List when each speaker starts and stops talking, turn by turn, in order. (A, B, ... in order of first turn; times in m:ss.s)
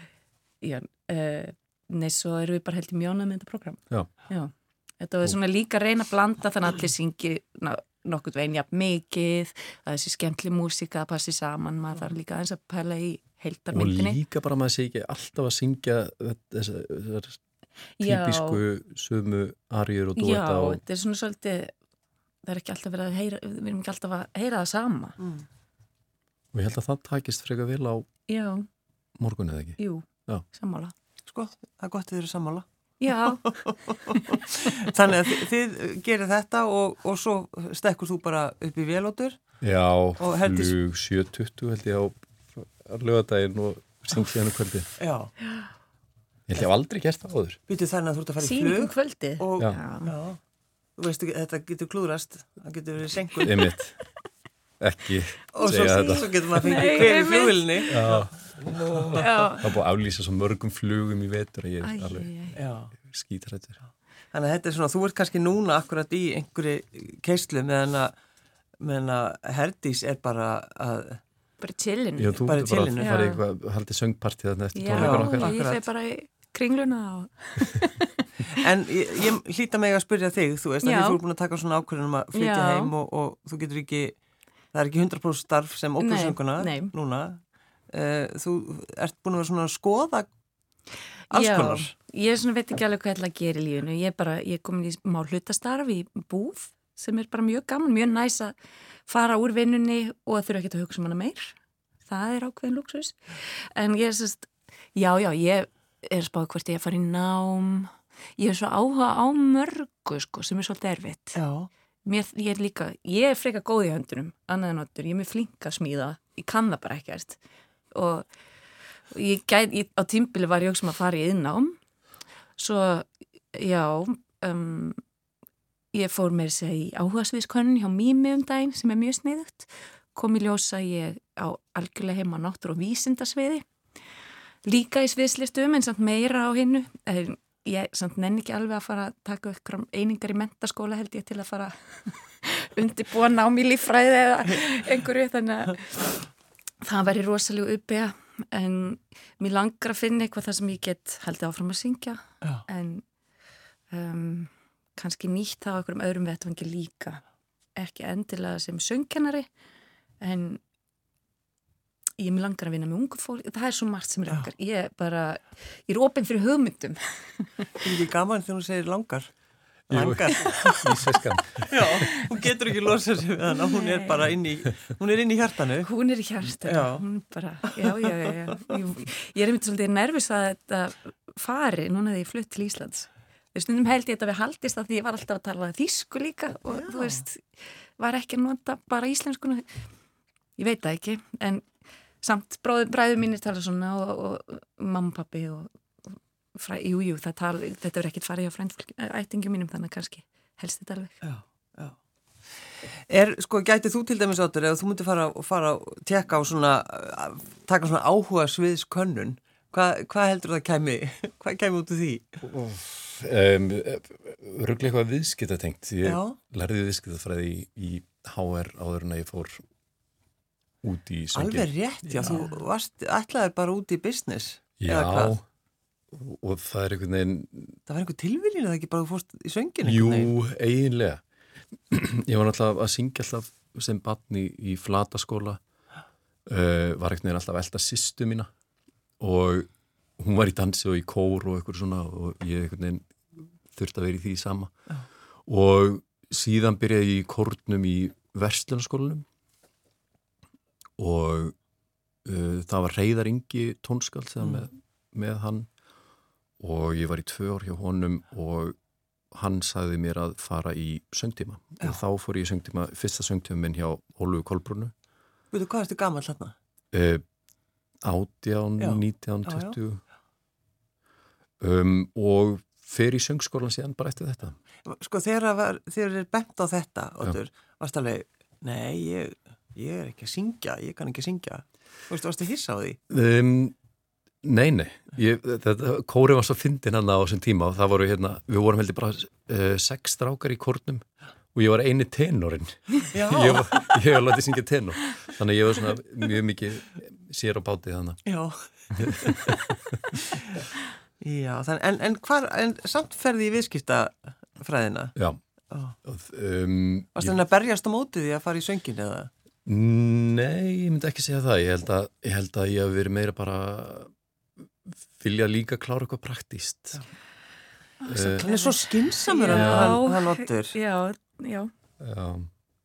0:00.6-0:14.2 A
0:13.7-0:17.4 B
0:18.0-0:18.6 A
0:18.0-0:20.8 B
0:20.2-0:21.7 A
0:22.4-0:25.2 A
0:25.2-0:25.4 C
0:26.5-0:28.1 B
0:28.3-0:28.6 A
0:29.2-0:30.4 B
0:29.8-0:30.9 A
0:31.3-0:32.6 C
0:33.0-0:33.5 A
0:33.2-0:39.4 C
0:39.6-0:44.9 B
0:40.2-0:40.7 C
0:45.0-0:45.3 C
0:46.5-0:47.6 B
0:47.7-0:50.4 C
0:48.4-0:50.1 A
0:51.0-0:53.6 C
0:53.4-0:54.0 B
0:54.8-0:56.4 B
0:55.5-0:59.3 C
0:55.7-0:58.0 A
0:57.9-1:02.3 B
0:59.2-0:59.7 A
1:01.8-1:02.6 A
1:02.5-1:02.9 C
1:03.0-1:03.8 B
1:04.3-1:08.1 C
1:08.8-1:11.2 C
1:11.6-1:13.4 A
1:12.2-1:15.5 B
1:12.4-1:13.2 C
1:14.7-1:18.2 A
1:14.9-1:15.8 C
1:18.5-1:24.2 C
1:20.8-1:21.2 A
1:22.3-1:22.9 A
1:24.7-1:27.4 C
1:26.0-1:26.9 A
1:27.9-1:30.3 C
1:31.3-1:31.9 C
1:31.3-1:38.5 A
1:39.1-1:41.5 A
1:42.1-1:51.4 A
1:51.3-1:51.7 C
1:52.0-1:57.4 A
1:57.9-1:58.3 A
1:59.1-2:01.8 A
2:02.6-2:05.0 A
2:05.9-2:13.6 A
2:14.6-2:26.3 A
2:26.8-2:33.0 A
2:33.9-2:37.2 A
2:37.8-2:39.5 A
2:40.2-2:40.6 A
2:42.2-2:47.8 A
2:47.8-2:49.3 C
2:49.9-2:51.0 C
2:49.9-2:51.9 B
2:51.6-2:55.9 C
2:52.0-2:52.3 A
2:53.5-2:54.2 A
2:55.8-3:07.4 A
2:56.6-2:57.0 C
2:57.7-2:58.5 C
3:06.7-3:07.2 C
3:08.0-3:09.6 A
3:10.6-3:11.6 A
3:12.2-3:21.2 A
3:21.2-3:22.0 C
3:22.8-3:32.4 C
3:32.4-3:39.6 B
3:36.0-3:36.4 C
3:40.8-3:42.4 B
3:41.3-3:45.3 C
3:44.8-3:45.4 B
3:46.1-3:47.8 B
3:47.9-3:50.3 C
3:49.8-3:51.2 B
3:51.7-3:55.6 B
3:56.4-3:58.5 B
3:59.2-4:03.1 B
4:03.7-4:04.7 B
4:05.4-4:09.2 B
4:11.0-4:11.6 B
4:12.2-4:15.7 B
4:16.6-4:18.8 B
4:19.3-4:24.9 B
4:25.5-4:26.5 C
4:26.9-4:27.2 B
4:28.0-4:30.0 B
4:28.8-4:29.8 C
4:31.6-4:34.6 B
4:34.8-4:43.0 C
4:43.1-4:43.7 B
4:44.4-4:58.2 B
4:53.1-4:54.0 C
4:58.2-4:59.6 C
4:58.9-5:00.2 B
5:00.1-5:00.6 C
5:01.2-5:05.2 C
5:05.7-5:06.0 C
5:06.0-5:07.4 B
5:07.2-5:09.3 C
5:09.6-5:14.1 B
5:14.9-5:17.0 B
5:18.0-5:21.7 A
5:18.1-5:18.5 B
5:18.4-5:20.8 C
5:19.5-5:20.0 B
5:22.0-5:22.5 B